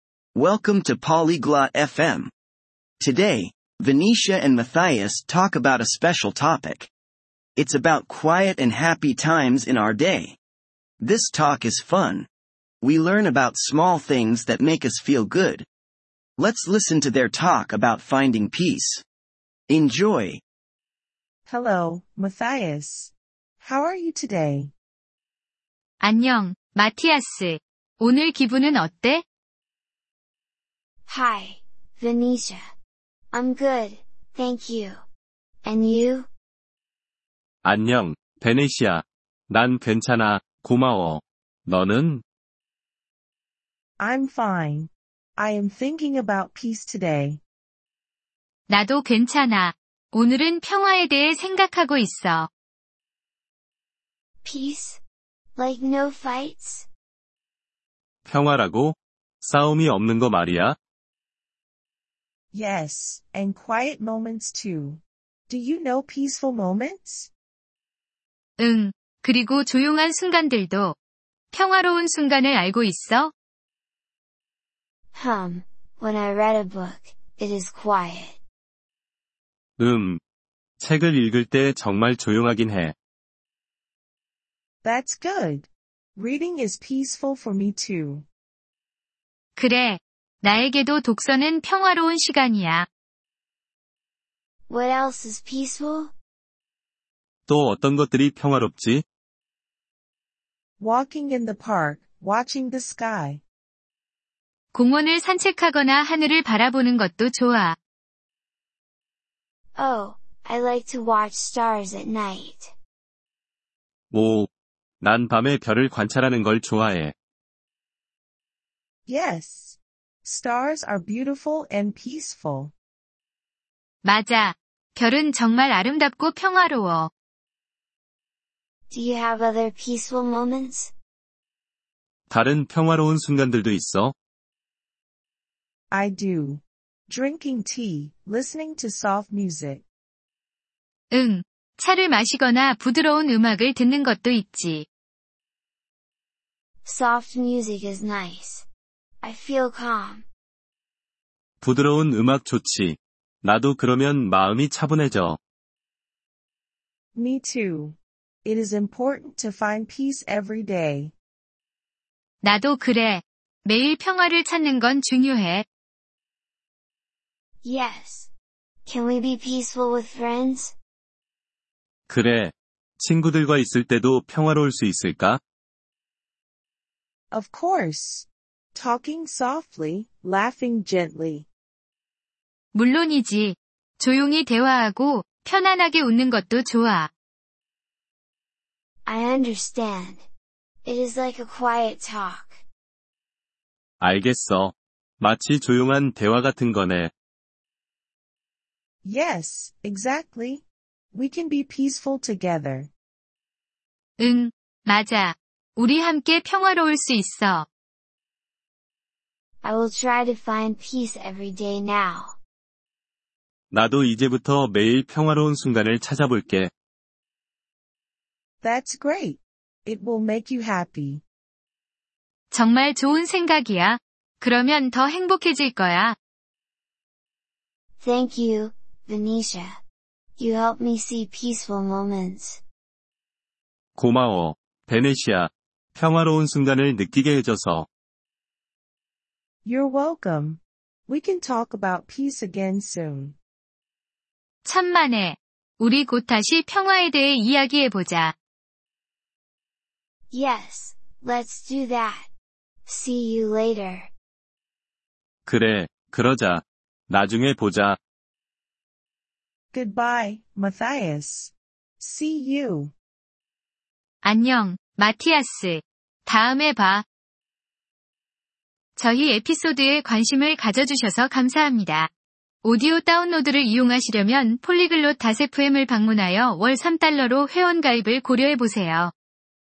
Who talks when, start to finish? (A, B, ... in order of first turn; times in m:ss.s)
0:00.3-0:02.3 A
0:03.0-0:06.9 A
0:07.6-0:10.4 A
0:11.0-0:12.3 A
0:12.8-0:15.7 A
0:16.4-0:19.0 A
0:19.7-0:20.4 A
0:21.5-0:24.7 B
0:26.0-0:29.2 C
0:31.0-0:32.6 D
0:33.3-0:35.0 D
0:35.6-0:36.3 D
0:37.6-0:42.2 E
0:44.0-0:47.4 B
0:48.7-0:52.5 C
0:54.4-0:55.0 D
0:55.6-0:56.9 D
0:58.2-1:00.8 E
1:02.5-1:07.3 B
1:08.6-1:11.0 C
1:11.5-1:13.3 C
1:15.1-1:18.4 D
1:19.8-1:20.2 E
1:20.8-1:22.9 E
1:24.8-1:28.2 B
1:29.6-1:32.9 C
1:34.7-1:36.1 D
1:37.5-1:39.0 E
1:40.8-1:43.4 B
1:44.7-1:47.8 C
1:49.8-1:52.8 D
1:54.1-1:54.5 E
1:55.0-1:57.1 E
1:59.1-2:02.7 B
2:04.0-2:07.1 C
2:08.9-2:10.9 D
2:12.3-2:14.1 E
2:15.9-2:19.8 B
2:21.1-2:24.8 C
2:26.8-2:28.7 D
2:29.2-2:30.2 D
2:31.6-2:35.4 E
2:37.2-2:41.1 B
2:42.4-2:45.6 C
2:47.6-2:48.3 D
2:48.8-2:50.8 D
2:52.1-2:55.4 E
2:57.3-3:01.5 B
3:02.7-3:07.1 C
3:09.0-3:10.2 D
3:10.8-3:12.6 D
3:14.0-3:17.1 E
3:19.0-3:22.9 B
3:24.2-3:27.7 C
3:29.6-3:32.4 D
3:33.7-3:36.7 E
3:38.6-3:41.2 B
3:42.5-3:46.2 C
3:48.0-3:49.8 D
3:50.4-3:52.6 D
3:54.0-3:57.9 E
3:59.6-4:03.3 B
4:04.6-4:08.3 C
4:10.3-4:12.3 D
4:12.8-4:14.1 D
4:15.5-4:18.0 E
4:19.7-4:22.9 B
4:24.2-4:27.0 C
4:29.0-4:32.1 C
4:32.6-4:39.1 C